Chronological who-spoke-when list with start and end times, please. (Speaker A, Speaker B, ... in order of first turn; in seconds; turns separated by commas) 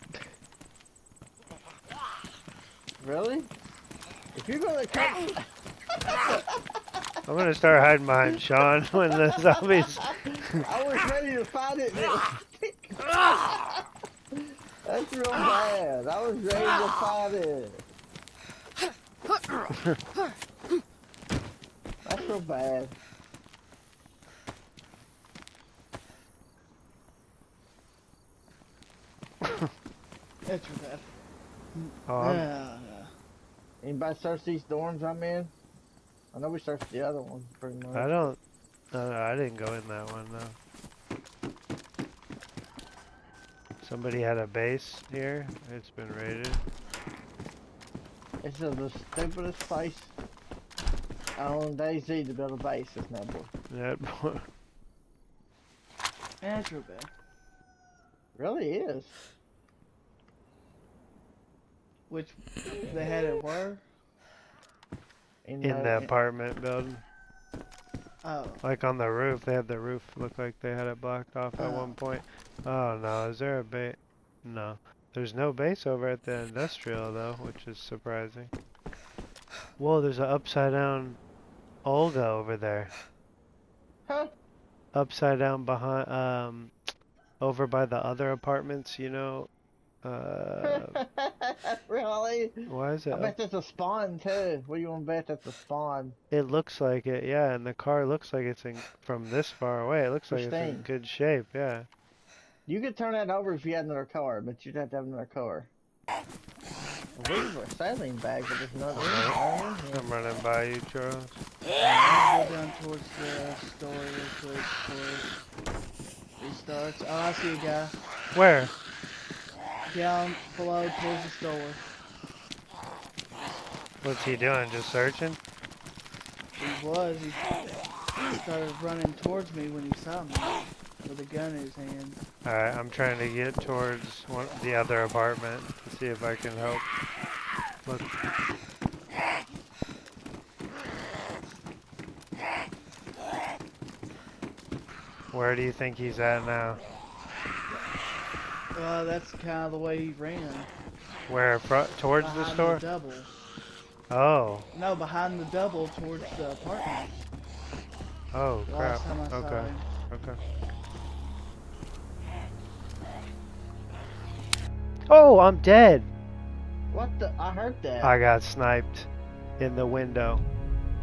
Speaker A: 3.0-3.5, Speaker A: 4.3-5.5, Speaker A: 6.0-6.4, Speaker B: 7.2-10.6, Speaker A: 10.2-13.7, Speaker A: 14.3-17.8, Speaker A: 22.0-22.9, Speaker B: 29.4-29.7, Speaker C: 30.4-31.1, Speaker C: 31.7-33.1, Speaker B: 32.1-32.5, Speaker A: 33.8-35.5, Speaker A: 36.3-38.3, Speaker B: 37.9-38.4, Speaker B: 38.9-40.5, Speaker B: 43.8-46.6, Speaker A: 48.4-50.1, Speaker A: 51.4-53.5, Speaker B: 53.7-54.5, Speaker C: 56.4-57.1, Speaker A: 58.3-59.2, Speaker C: 62.1-63.8, Speaker A: 65.4-66.1, Speaker B: 65.6-67.0, Speaker C: 68.2-68.7, Speaker B: 68.6-78.5, Speaker C: 71.6-71.9, Speaker B: 79.8-81.2, Speaker B: 81.8-82.9, Speaker B: 84.9-86.7, Speaker B: 87.4-89.5, Speaker B: 90.0-91.0, Speaker A: 90.6-96.2, Speaker B: 92.7-93.3, Speaker B: 96.3-101.9, Speaker A: 100.3-100.9, Speaker A: 102.7-105.7, Speaker A: 107.1-110.1, Speaker B: 108.9-111.4, Speaker A: 111.7-112.3, Speaker C: 112.0-115.3, Speaker C: 116.4-118.0, Speaker B: 118.3-118.7, Speaker C: 119.9-121.8, Speaker B: 124.0-125.4, Speaker C: 126.5-127.5, Speaker C: 128.2-132.2, Speaker B: 132.4-136.8, Speaker B: 145.3-146.8, Speaker C: 148.7-150.7, Speaker B: 151.3-152.8, Speaker C: 152.2-153.3, Speaker B: 154.1-154.7, Speaker C: 154.7-157.2, Speaker B: 158.3-160.4, Speaker C: 158.7-159.9, Speaker B: 165.1-166.1, Speaker A: 166.9-168.1, Speaker B: 168.0-169.1, Speaker B: 169.6-170.4